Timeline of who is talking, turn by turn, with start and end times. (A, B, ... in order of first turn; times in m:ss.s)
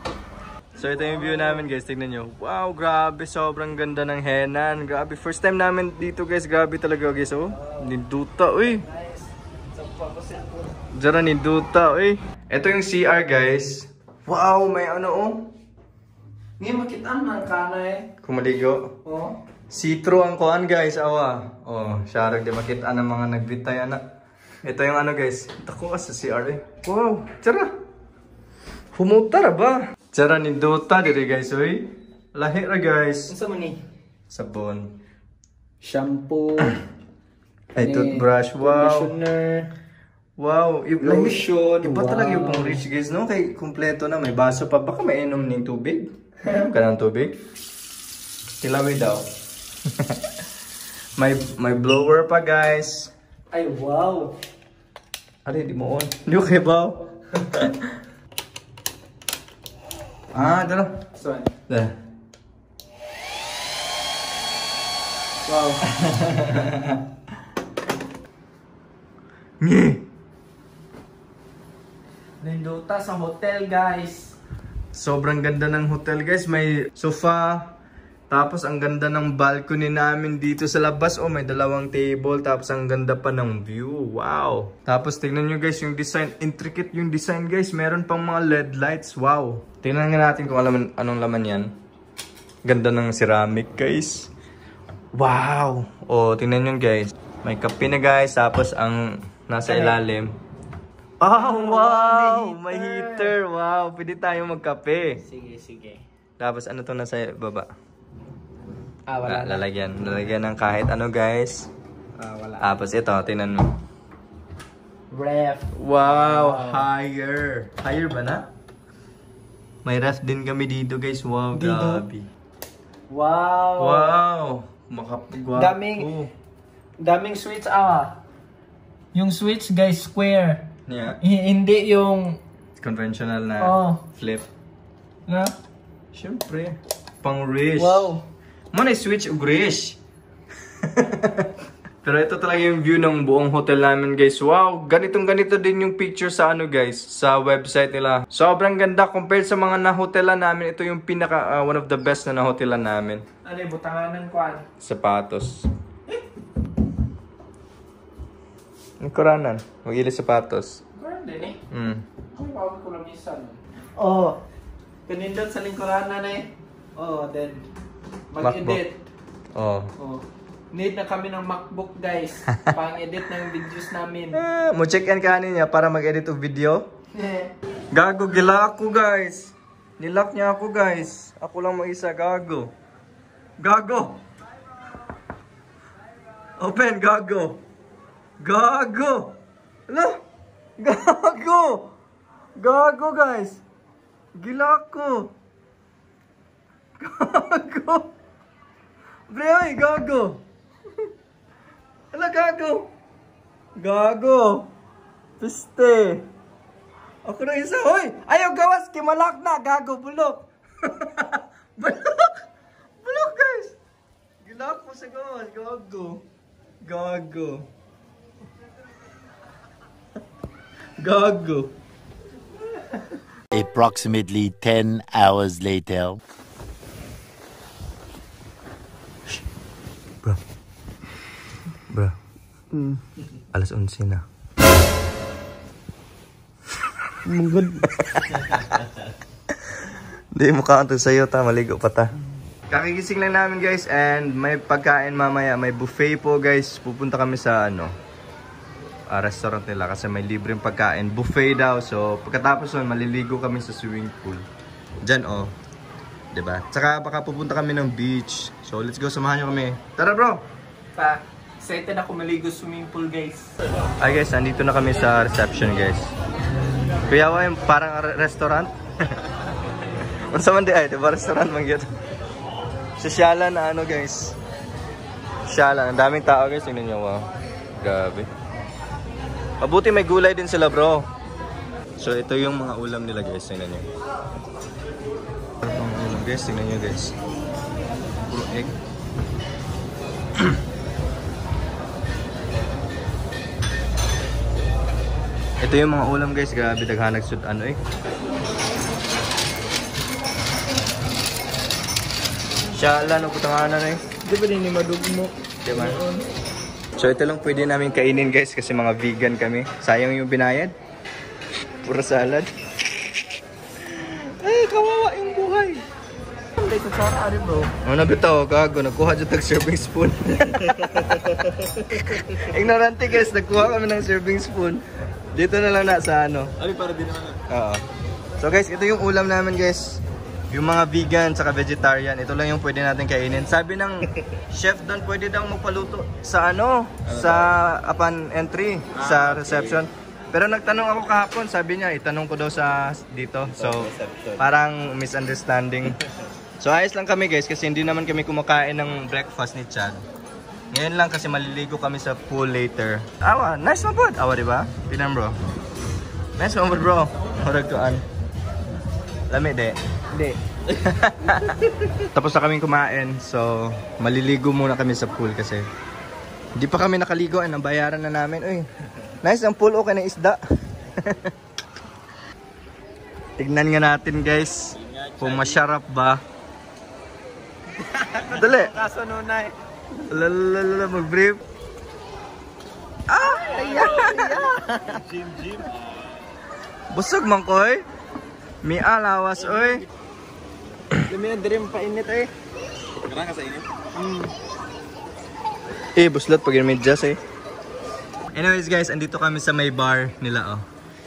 0:00.8-0:08.8 A
0:00.8-0:01.7 B
0:07.6-0:07.9 B
0:08.7-0:10.7 B
0:11.0-0:15.5 A
0:16.6-0:18.1 B
0:18.2-0:18.9 A
0:19.0-0:19.4 B
0:19.7-0:24.0 A
0:24.6-0:27.7 A
0:28.9-0:33.3 A
0:33.3-0:33.8 B
0:34.3-0:34.9 A
0:35.8-0:36.8 B
0:37.8-0:39.1 A
0:37.8-0:39.7 B
0:40.4-0:47.4 A
0:41.0-0:42.8 B
0:48.6-0:49.3 A
0:51.2-0:53.1 A
0:53.5-0:54.3 B
0:55.4-0:57.8 A
1:00.3-1:01.0 A
1:01.2-1:01.5 B
1:01.7-1:01.9 A
1:05.5-1:05.8 B
1:05.9-1:07.0 A
1:09.6-1:10.0 A
1:12.4-1:14.3 B
1:14.9-1:17.7 A
1:18.3-1:31.7 A
1:32.6-1:34.3 A
1:35.2-1:40.3 A
1:39.6-1:40.0 B
1:41.2-1:45.2 A
1:41.3-1:43.3 B
1:45.2-1:46.0 B
1:46.4-1:47.7 A
1:49.1-1:49.6 B
1:49.2-1:51.7 A
1:52.2-1:52.8 B
1:52.6-1:53.8 A
1:55.1-1:56.9 B
1:55.8-1:58.5 A
1:59.8-2:02.3 A
2:01.5-2:02.0 B
2:03.1-2:04.1 B
2:03.8-2:06.3 A
2:05.6-2:06.1 B
2:07.0-2:08.2 B
2:09.1-2:10.6 B
2:10.9-2:11.2 A
2:11.2-2:12.4 B
2:12.8-2:14.5 A
2:13.6-2:14.0 B
2:15.3-2:15.5 B
2:16.1-2:18.1 A
2:17.8-2:18.2 B
2:18.7-2:20.0 A
2:20.8-2:21.5 A
2:22.0-2:33.2 A
2:33.4-2:34.6 B
2:34.8-2:35.6 A
2:39.0-2:40.8 A
2:41.0-2:41.6 B
2:41.7-2:42.0 A
2:42.3-2:44.4 B
2:45.1-2:47.6 B
2:48.3-2:49.0 B
2:48.4-2:48.8 A
2:49.5-2:49.9 A
2:50.0-2:54.4 B
2:54.3-2:56.9 A
2:57.2-2:57.5 B
2:57.9-3:02.7 A
3:03.6-3:04.2 A
3:06.6-3:07.6 A
3:08.4-3:09.3 A
3:09.9-3:10.2 A
3:10.8-3:11.9 A
3:12.6-3:13.6 A
3:14.4-3:15.3 A
3:17.0-3:18.1 A
3:19.3-3:20.4 A
3:22.1-3:22.9 A
3:23.8-3:24.7 A
3:25.4-3:26.2 A
3:27.2-3:32.4 A
3:33.0-3:33.8 A
3:34.4-3:36.2 A
3:36.8-3:37.7 A
3:41.0-3:41.7 A
3:43.5-3:46.2 C
3:53.5-3:54.2 A
3:57.3-3:57.8 B
3:57.8-3:58.8 A
4:00.3-4:02.1 A
4:02.7-4:07.9 A
4:09.1-4:14.4 A
4:15.0-4:15.5 A
4:16.3-4:20.4 A
4:21.0-4:23.5 B
4:24.0-4:26.1 A
4:27.1-4:28.7 A
4:30.3-4:31.9 A
4:33.0-4:34.4 A
4:35.5-4:37.2 A
4:37.8-4:38.3 A
4:39.6-4:41.0 A
4:42.0-4:43.9 A
4:45.6-4:47.1 A
4:48.3-4:48.8 A
4:55.6-4:57.8 A
5:02.8-5:04.0 A
5:04.2-5:06.3 B
5:05.6-5:06.0 A
5:07.0-5:10.7 A
5:11.8-5:12.5 A
5:13.9-5:15.8 A
5:16.6-5:17.7 B
5:17.8-5:21.3 A
5:21.2-5:22.2 D
5:21.9-5:24.8 A
5:25.3-5:26.5 A
5:26.6-5:27.4 D
5:27.5-5:27.8 A
5:28.4-5:46.0 A
5:37.0-5:37.5 D
5:38.9-5:39.8 D
5:43.4-5:44.4 D
5:46.6-5:50.0 A
5:50.7-5:55.3 A
5:56.4-5:58.0 A
5:59.3-5:59.8 A
6:00.1-6:00.4 B
6:00.8-6:05.6 A
6:06.6-6:08.7 A
6:09.2-6:10.4 A
6:11.0-6:11.3 A
6:13.4-6:16.2 A
6:14.8-6:15.6 D
6:18.0-6:19.5 B
6:18.3-6:18.7 A
6:20.1-6:21.4 A
6:23.1-6:24.8 A
6:23.4-6:25.9 D
6:24.0-6:24.7 B
6:26.9-6:27.8 A
6:28.6-6:29.8 A
6:31.1-6:32.3 B
6:33.0-6:33.7 D
6:33.9-6:34.3 B
6:36.0-6:37.2 A
6:38.3-6:40.6 A